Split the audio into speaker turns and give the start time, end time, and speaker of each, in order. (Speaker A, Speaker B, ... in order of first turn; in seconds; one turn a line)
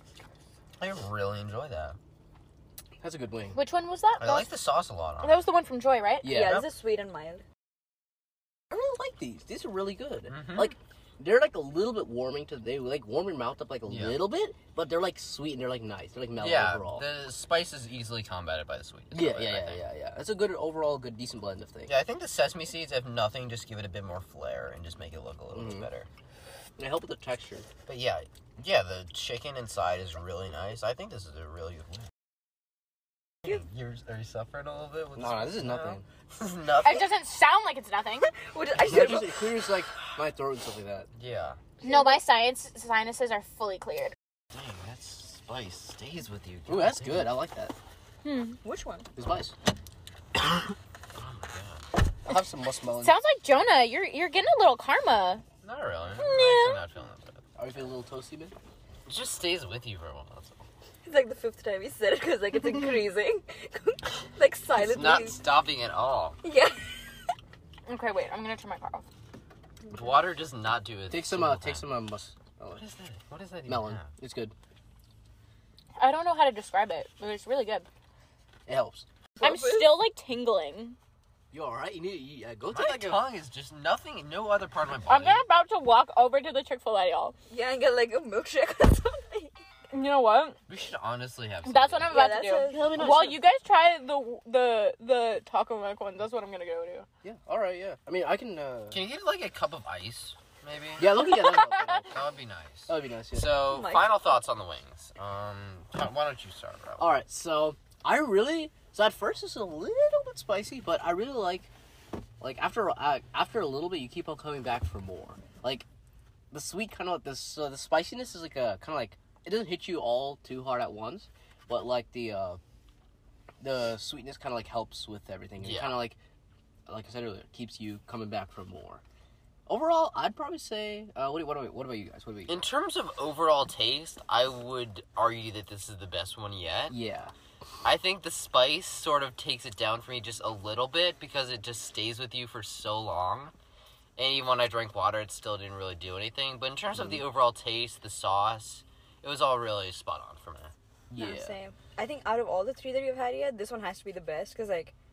Speaker A: 0.8-2.0
Speaker B: 3.0-3.6
Speaker C: 3.5-4.5
Speaker A: 4.2-5.4
Speaker C: 5.2-6.5
Speaker B: 6.2-6.7
Speaker D: 6.3-7.4
Speaker B: 8.7-17.1
Speaker A: 10.3-10.7
Speaker A: 13.9-14.2
Speaker A: 16.4-19.9
Speaker B: 19.1-21.9
Speaker A: 21.9-26.1
Speaker B: 25.5-25.9
Speaker B: 26.8-27.7
Speaker A: 27.9-32.1
Speaker A: 33.4-37.1
Speaker B: 35.2-36.0
Speaker C: 36.8-38.3
Speaker D: 38.3-39.5
Speaker B: 38.8-41.1
Speaker A: 41.2-41.6
Speaker D: 41.8-42.2
Speaker C: 41.8-44.1
Speaker A: 44.5-47.3
Speaker B: 46.7-47.8
Speaker C: 48.2-48.6
Speaker D: 48.6-49.1
Speaker B: 49.2-49.5
Speaker A: 51.1-51.9
Speaker B: 52.2-53.2
Speaker C: 53.0-55.4
Speaker A: 55.6-57.5
Speaker C: 56.1-56.8
Speaker B: 57.6-58.5
Speaker A: 59.1-60.6
Speaker D: 61.0-65.4
Speaker A: 64.8-66.4
Speaker D: 66.4-66.8
Speaker C: 67.9-69.1
Speaker A: 69.9-71.9
Speaker B: 71.1-72.8
Speaker A: 72.8-74.1
Speaker B: 73.7-74.5
Speaker C: 76.0-77.9
Speaker B: 78.7-79.1
Speaker D: 79.4-80.0
Speaker C: 79.4-81.0
Speaker B: 81.5-83.2
Speaker A: 82.7-85.4
Speaker C: 85.1-87.3
Speaker D: 87.5-89.5
Speaker C: 89.9-90.6
Speaker A: 90.7-92.3
Speaker C: 91.7-97.1
Speaker D: 92.1-93.3
Speaker B: 92.6-93.4
Speaker B: 97.2-99.0
Speaker A: 98.9-101.3
Speaker B: 101.0-102.2
Speaker C: 101.2-102.0
Speaker A: 102.1-107.1
Speaker B: 102.9-103.6
Speaker D: 103.7-104.2
Speaker B: 107.0-111.7
Speaker B: 112.4-115.8
Speaker B: 116.5-122.6
Speaker B: 123.6-126.2
Speaker A: 125.6-126.0
Speaker B: 126.9-129.0
Speaker B: 129.7-132.7
Speaker A: 132.5-136.9
Speaker B: 136.9-137.3
Speaker A: 137.8-143.5
Speaker A: 144.2-150.7
Speaker B: 146.9-147.2
Speaker B: 151.1-151.6
Speaker D: 151.2-154.9